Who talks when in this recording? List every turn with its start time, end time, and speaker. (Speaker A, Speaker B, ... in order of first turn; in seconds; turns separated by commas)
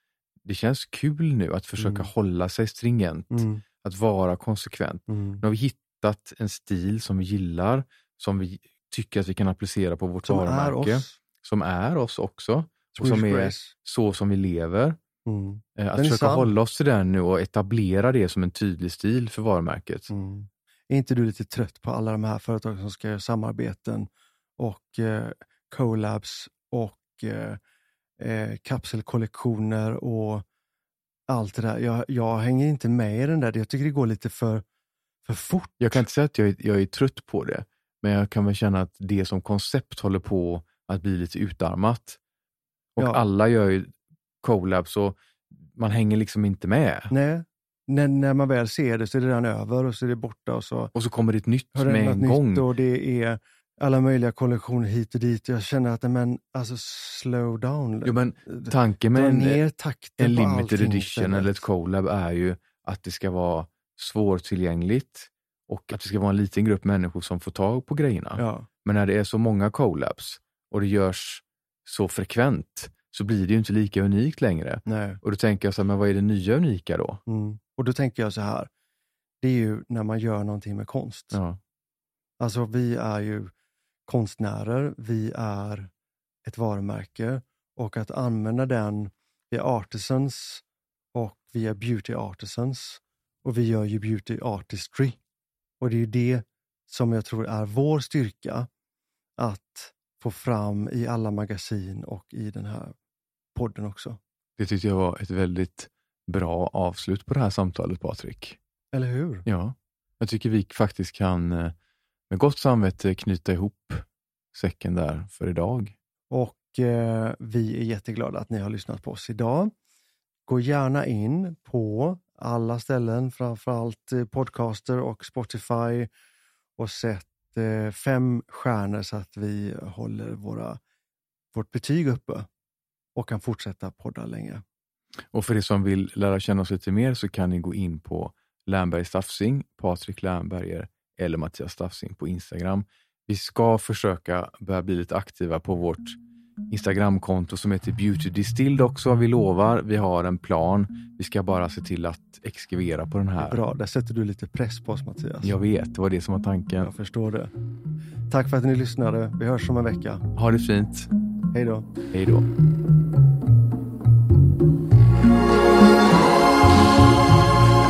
Speaker A: 0.5-15.0, Speaker B: 1.8-2.1, Speaker B: 3.3-3.6, Speaker B: 5.1-5.4, Speaker B: 10.2-11.2, Speaker B: 13.0-13.7, Speaker B: 15.2-16.5, Speaker A: 15.8-20.1, Speaker B: 20.1-27.6, Speaker B: 28.2-30.4, Speaker B: 31.3-34.6, Speaker B: 35.2-36.0, Speaker A: 35.8-42.2, Speaker A: 43.0-47.1, Speaker B: 47.1-50.9, Speaker A: 51.0-52.7, Speaker B: 51.7-61.6, Speaker A: 58.0-59.6, Speaker A: 60.2-77.2, Speaker B: 68.4-68.7, Speaker B: 74.9-75.2, Speaker B: 77.3-78.7, Speaker B: 79.4-81.4, Speaker A: 81.3-81.6, Speaker B: 82.4-83.5, Speaker B: 84.1-85.9, Speaker B: 86.5-95.2, Speaker B: 95.8-98.7, Speaker B: 99.4-103.0, Speaker B: 103.5-104.2, Speaker A: 104.6-108.6, Speaker B: 108.9-109.5, Speaker A: 109.5-111.7, Speaker A: 112.3-115.9, Speaker B: 116.3-119.7, Speaker B: 120.5-126.1, Speaker B: 126.8-130.8, Speaker B: 131.5-132.5, Speaker B: 133.2-134.6, Speaker A: 135.3-146.2, Speaker A: 146.7-153.6, Speaker B: 153.4-155.6, Speaker A: 155.4-156.9, Speaker B: 156.8-157.5, Speaker B: 158.3-160.2, Speaker A: 160.3-161.1, Speaker B: 161.5-161.9, Speaker A: 162.1-162.5